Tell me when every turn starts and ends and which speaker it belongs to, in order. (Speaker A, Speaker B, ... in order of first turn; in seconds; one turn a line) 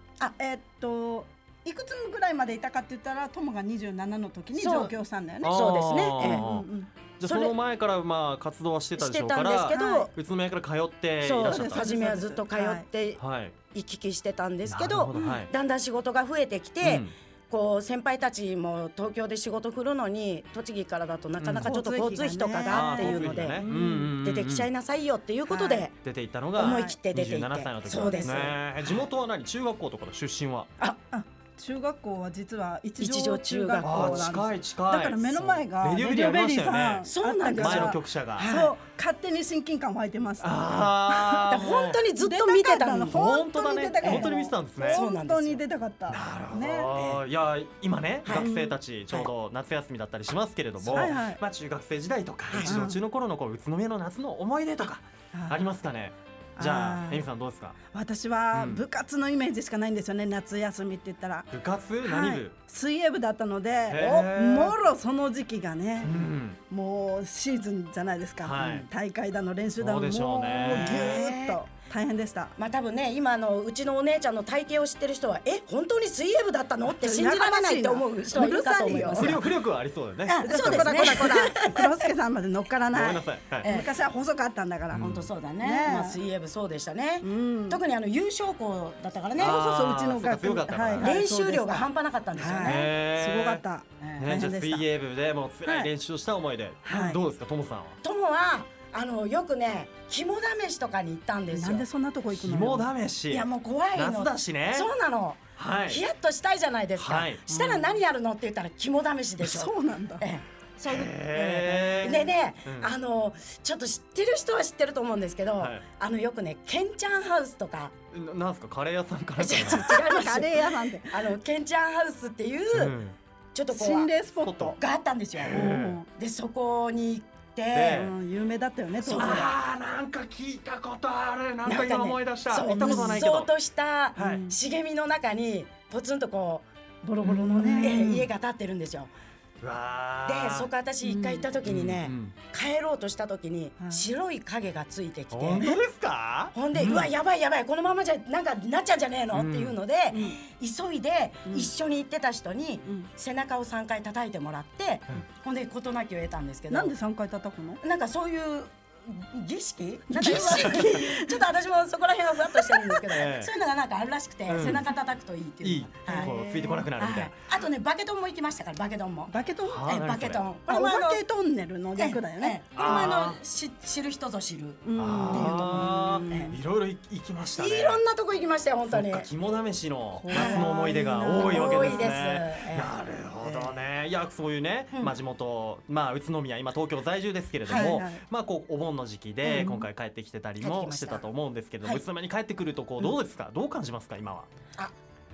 Speaker A: 0.3-6.9
Speaker B: 4.6-4.9
Speaker C: 5.4-6.7
Speaker B: 5.5-6.5
Speaker C: 7.2-11.9
Speaker B: 7.2-7.5
Speaker B: 8.9-10.1
Speaker A: 9.7-10.1
Speaker B: 11.2-13.2
Speaker A: 11.4-12.8
Speaker C: 13.2-13.5
Speaker B: 13.7-23.7
Speaker C: 14.7-15.5
Speaker C: 16.8-17.1
Speaker C: 21.4-21.7
Speaker A: 21.6-24.1
Speaker C: 22.7-24.7
Speaker B: 24.2-25.9
Speaker A: 25.5-25.9
Speaker C: 26.0-30.7
Speaker B: 26.6-28.9
Speaker A: 26.6-27.0
Speaker A: 27.9-28.4
Speaker A: 31.1-40.8
Speaker B: 33.0-34.3
Speaker C: 33.8-38.5
Speaker B: 37.0-38.7
Speaker C: 40.4-42.0
Speaker B: 41.1-43.3
Speaker A: 42.2-46.9
Speaker C: 43.1-45.0
Speaker B: 43.9-45.6
Speaker C: 46.1-57.8
Speaker B: 48.2-48.5
Speaker A: 48.4-48.7
Speaker A: 50.9-51.4
Speaker B: 52.5-52.8
Speaker A: 52.6-53.0
Speaker A: 55.3-55.6
Speaker A: 56.6-57.2
Speaker A: 57.9-61.5
Speaker C: 58.5-58.8
Speaker C: 61.5-62.5
Speaker A: 62.0-66.1
Speaker C: 63.9-64.8
Speaker C: 66.0-66.6
Speaker A: 66.7-72.5
Speaker C: 68.4-68.8
Speaker C: 69.8-71.2
Speaker B: 70.5-71.6
Speaker B: 72.6-79.4
Speaker A: 77.0-79.4
Speaker C: 79.0-81.3
Speaker A: 80.3-85.0
Speaker B: 80.3-82.0
Speaker C: 82.9-83.7
Speaker B: 83.6-83.9
Speaker C: 84.9-85.2
Speaker B: 85.0-89.6
Speaker A: 85.6-86.2
Speaker A: 87.2-87.8
Speaker C: 89.4-91.1
Speaker A: 89.4-94.8
Speaker B: 91.0-92.9
Speaker C: 92.6-93.6
Speaker C: 94.2-98.0
Speaker A: 95.6-95.9
Speaker A: 96.8-97.2
Speaker B: 98.0-101.8
Speaker A: 101.5-102.9
Speaker C: 102.3-104.9
Speaker B: 103.3-117.9
Speaker C: 105.6-106.0
Speaker C: 107.0-107.4
Speaker A: 107.5-108.0
Speaker A: 109.4-110.2
Speaker C: 110.8-112.9
Speaker C: 118.1-120.0
Speaker B: 119.4-122.9
Speaker A: 119.5-121.1
Speaker C: 122.7-123.2
Speaker B: 123.5-124.1
Speaker A: 123.7-124.8
Speaker C: 124.4-124.8
Speaker B: 124.8-125.6
Speaker C: 125.4-126.0
Speaker A: 125.5-126.1
Speaker B: 126.2-128.1
Speaker C: 127.7-128.1
Speaker A: 127.9-129.6
Speaker B: 129.0-129.5
Speaker C: 129.1-133.5
Speaker B: 131.6-139.1
Speaker A: 132.7-133.2
Speaker C: 134.2-134.4
Speaker A: 134.2-134.5
Speaker A: 137.2-138.3
Speaker C: 137.5-138.2
Speaker C: 139.6-140.7
Speaker B: 140.2-145.7
Speaker A: 141.0-141.5
Speaker C: 141.6-142.3
Speaker A: 143.8-144.0
Speaker C: 145.3-147.1
Speaker B: 146.5-156.9
Speaker C: 149.3-149.8
Speaker A: 150.1-150.4
Speaker A: 156.7-157.8
Speaker B: 157.8-166.3
Speaker A: 160.1-161.4
Speaker C: 163.1-163.5
Speaker C: 164.5-164.8
Speaker C: 165.6-167.3
Speaker A: 166.1-166.9
Speaker B: 167.0-169.3
Speaker A: 169.3-169.9
Speaker C: 169.6-170.4
Speaker B: 169.9-171.2
Speaker A: 170.7-172.6
Speaker B: 171.9-176.5
Speaker C: 172.8-173.4
Speaker A: 174.8-176.6
Speaker C: 175.0-178.0
Speaker B: 177.6-179.3
Speaker C: 178.9-194.5
Speaker A: 180.1-182.1
Speaker B: 180.3-180.7
Speaker B: 181.2-183.7
Speaker B: 187.7-188.0
Speaker A: 187.7-188.2
Speaker A: 189.4-189.8
Speaker B: 190.6-191.2